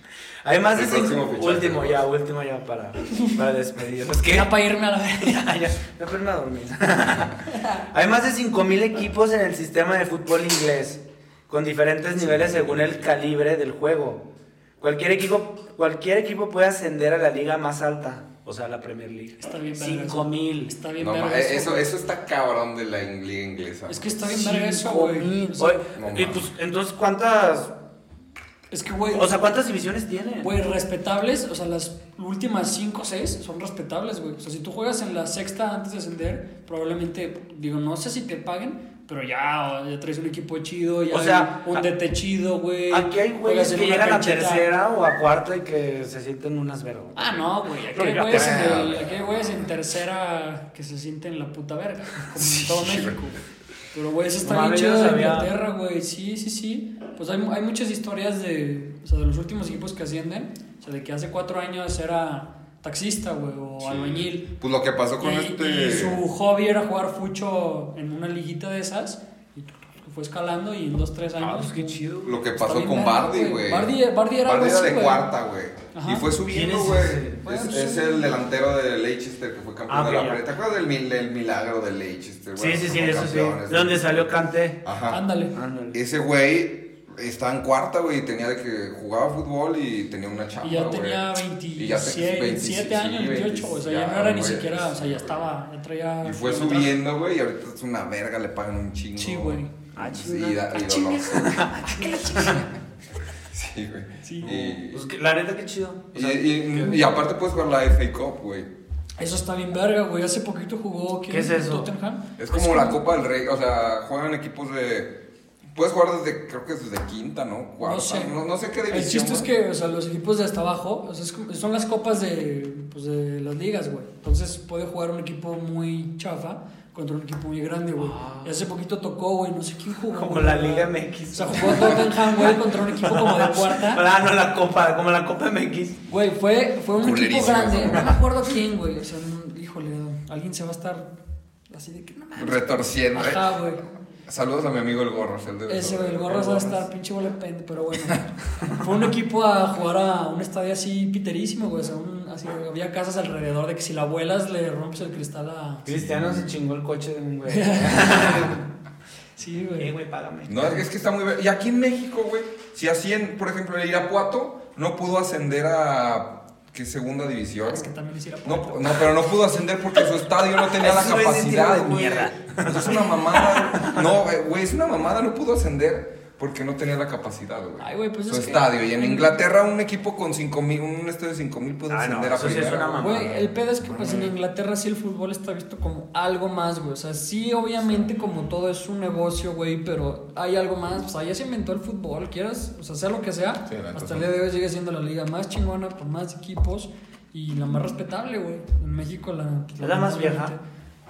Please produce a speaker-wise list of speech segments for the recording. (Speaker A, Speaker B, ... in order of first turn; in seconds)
Speaker A: 0.4-4.5, 5.2-14.2, 14.8-20.7, 24.3-27.7, 29.1-30.5, 41.1-41.9, 42.9-48.8, 54.4-55.5, 71.4-72.5, 76.4-77.5, 79.9-80.4, 82.6-84.8, 85.5-86.0, 100.0-100.7, 101.2-102.6, 104.4-107.1, 111.3-111.9, 128.0-128.6, 130.1-136.0, 155.8-158.6, 159.8-160.8, 170.7-174.2, 181.9-183.5, 199.8-200.5
Speaker B: 0.7-2.1, 12.2-13.0, 21.0-24.4, 25.9-26.5, 48.3-49.7, 52.3-53.2, 63.8-66.2, 72.2-85.2, 85.9-95.5, 96.2-101.6, 103.4-105.1, 106.1-108.7, 112.4-115.2, 115.8-119.5, 137.0-138.2, 142.4-143.6, 144.2-146.9, 155.9-156.5, 160.5-167.9, 168.4-183.2, 183.8-184.3, 193.7-194.3
Speaker C: 4.3-5.5, 7.5-7.8, 19.4-21.9, 23.9-25.9, 28.7-29.4, 30.4-44.7, 47.2-53.4, 53.9-64.5, 65.2-75.3, 75.9-76.4, 77.4-78.4, 85.1-85.5, 90.6-97.0, 99.2-99.8, 100.7-102.6, 104.2-104.5, 109.2-113.0, 117.8-118.4, 118.9-134.1, 136.1-141.1, 141.7-144.0, 145.7-155.9, 157.5-158.6, 159.4-159.9, 167.6-169.1, 177.8-179.4, 182.5-200.6